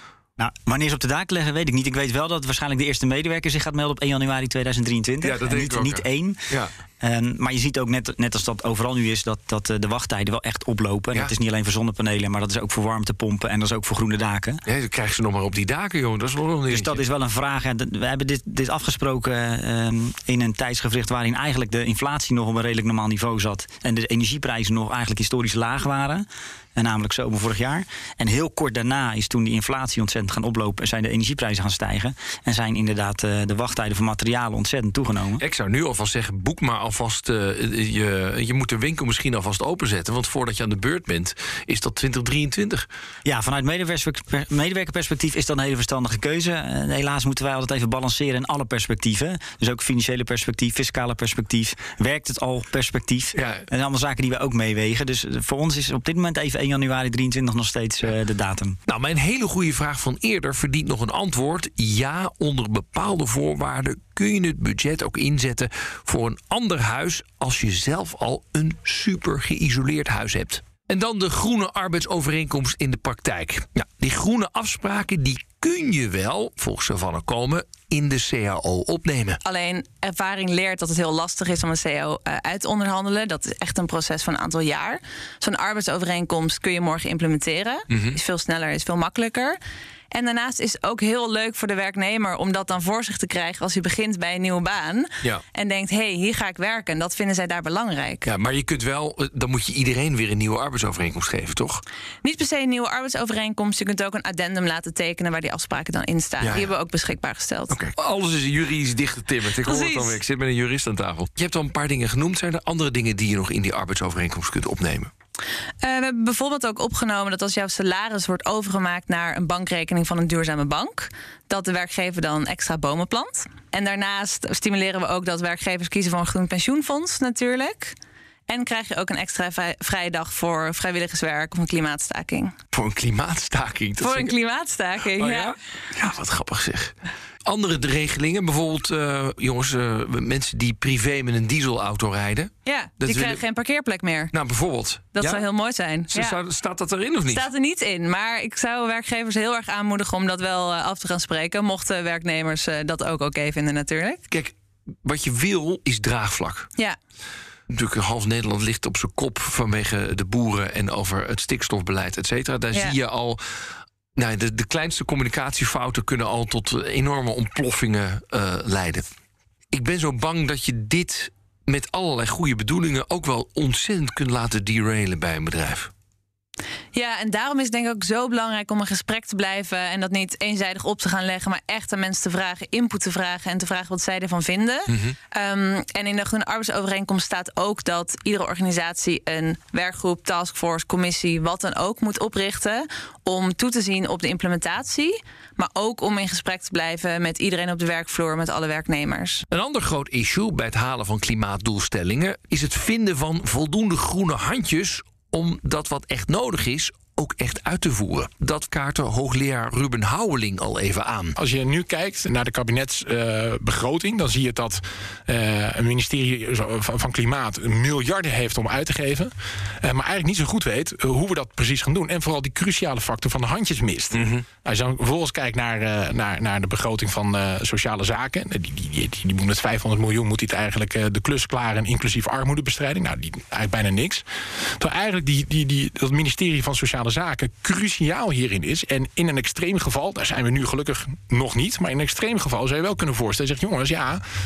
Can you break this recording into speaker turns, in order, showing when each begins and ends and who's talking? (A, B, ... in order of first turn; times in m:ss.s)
0:00.4-0:14.6 A
0:05.2-0:06.7 B
0:14.6-0:17.0 B
0:16.7-0:35.4 A
0:35.4-0:42.8 B
0:43.2-0:58.8 A
0:53.3-0:53.6 B
0:58.9-1:19.4 B
1:19.4-1:29.6 C
1:27.9-1:28.2 B
1:30.1-1:38.3 C
1:38.2-1:41.8 B
1:42.2-1:47.7 C
1:46.4-1:46.7 B
1:47.7-1:55.1 B
1:49.6-1:50.2 C
1:55.8-2:07.9 C
2:08.5-2:12.5 C
2:12.7-2:14.3 B
2:14.0-2:15.5 C
2:15.2-2:16.9 B
2:17.4-2:23.4 B
2:22.6-2:24.3 C
2:24.3-2:25.4 B
2:25.1-2:26.4 C
2:26.1-2:27.5 B
2:27.3-2:34.2 C
2:35.0-2:36.7 B
2:37.7-2:43.4 B
2:44.2-2:49.0 B
2:49.7-2:55.9 B
2:56.9-3:19.4 C
3:04.9-3:05.2 B
3:19.5-3:31.4 B
3:31.4-3:54.2 D
3:44.1-3:44.4 B
3:54.8-4:04.2 D